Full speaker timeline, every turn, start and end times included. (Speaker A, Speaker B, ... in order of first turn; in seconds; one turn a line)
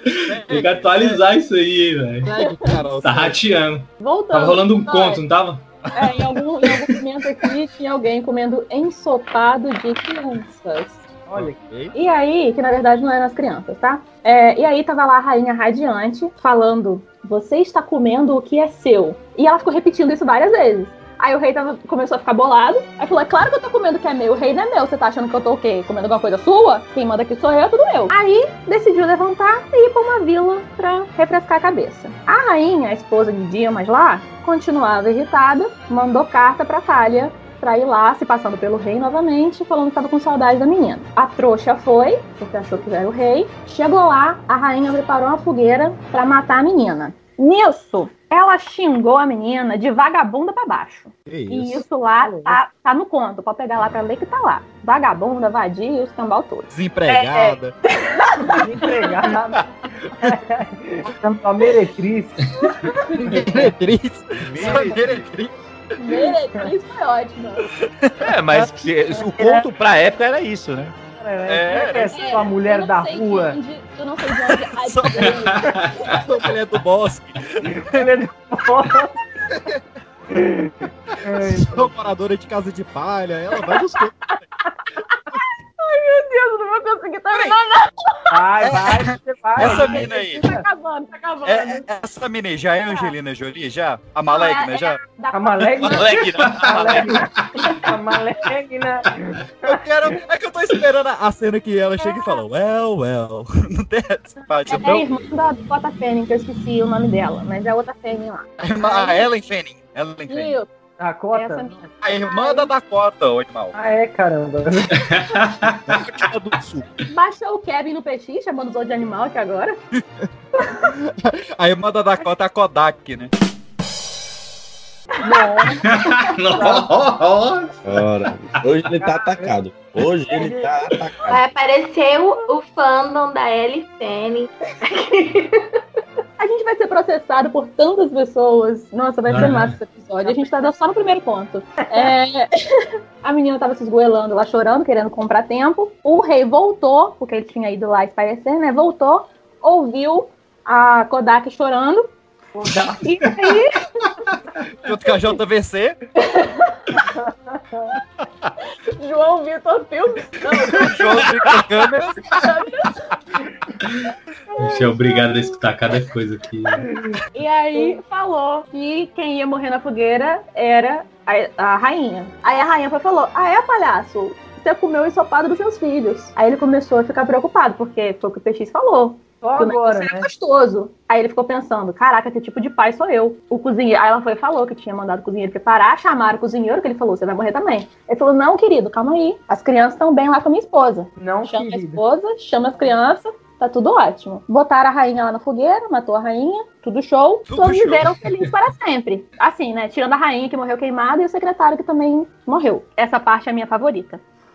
Speaker A: 0.2-1.2
Speaker B: 0.5-2.3
Speaker A: 2.3-3.4
Speaker C: 2.3-2.7
Speaker B: 3.0-5.6
Speaker C: 4.0-5.2
Speaker C: 5.9-11.0
Speaker D: 11.3-11.6
Speaker A: 11.3-11.9
Speaker C: 11.9-57.6
Speaker A: 51.3-51.8
Speaker D: 52.2-52.6
Speaker A: 56.7-57.8
Speaker D: 58.5-59.6
Speaker D: 60.1-62.4
Speaker A: 63.3-65.5
Speaker E: 64.4-65.3
Speaker C: 66.0-67.7
Speaker A: 68.0-68.7
Speaker E: 68.2-70.9
Speaker D: 69.3-69.7
Speaker D: 71.2-73.6
Speaker A: 71.5-72.2
Speaker C: 72.0-75.7
Speaker A: 74.5-78.1
Speaker D: 77.8-79.1
Speaker D: 80.3-80.7
Speaker D: 81.2-81.9
Speaker A: 81.4-84.3
Speaker C: 85.8-87.9
Speaker D: 88.3-90.6
Speaker A: 88.6-90.4
Speaker C: 89.7-91.8
Speaker A: 91.4-95.0
Speaker C: 94.3-96.2
Speaker D: 95.3-97.3
Speaker A: 95.8-96.1
Speaker E: 95.9-97.2
Speaker D: 97.8-99.8
Speaker A: 99.7-105.1
Speaker C: 104.7-109.3
Speaker A: 108.6-110.6
Speaker C: 110.3-110.7
Speaker D: 111.0-111.8
Speaker C: 111.3-112.7
Speaker A: 112.0-113.7
Speaker D: 113.7-114.9
Speaker B: 115.0-116.0
Speaker A: 115.9-116.9
Speaker C: 117.1-119.8
Speaker A: 119.9-120.3
Speaker A: 120.9-123.3
Speaker D: 125.2-126.9
Speaker B: 125.9-127.7
Speaker F: 127.8-131.4
Speaker D: 128.9-129.5
Speaker D: 130.3-130.7
Speaker G: 131.3-135.6
Speaker C: 136.4-142.5
Speaker B: 139.3-139.7
Speaker C: 143.2-152.1
Speaker D: 152.5-153.1
Speaker C: 153.0-153.7
Speaker A: 154.8-155.9
Speaker D: 157.2-157.9
Speaker C: 159.0-161.2
Speaker A: 160.7-162.3
Speaker C: 162.3-162.9
Speaker B: 164.6-166.8
Speaker C: 167.3-204.2
Speaker D: 179.4-180.3
Speaker D: 191.2-192.0
Speaker A: 197.4-198.2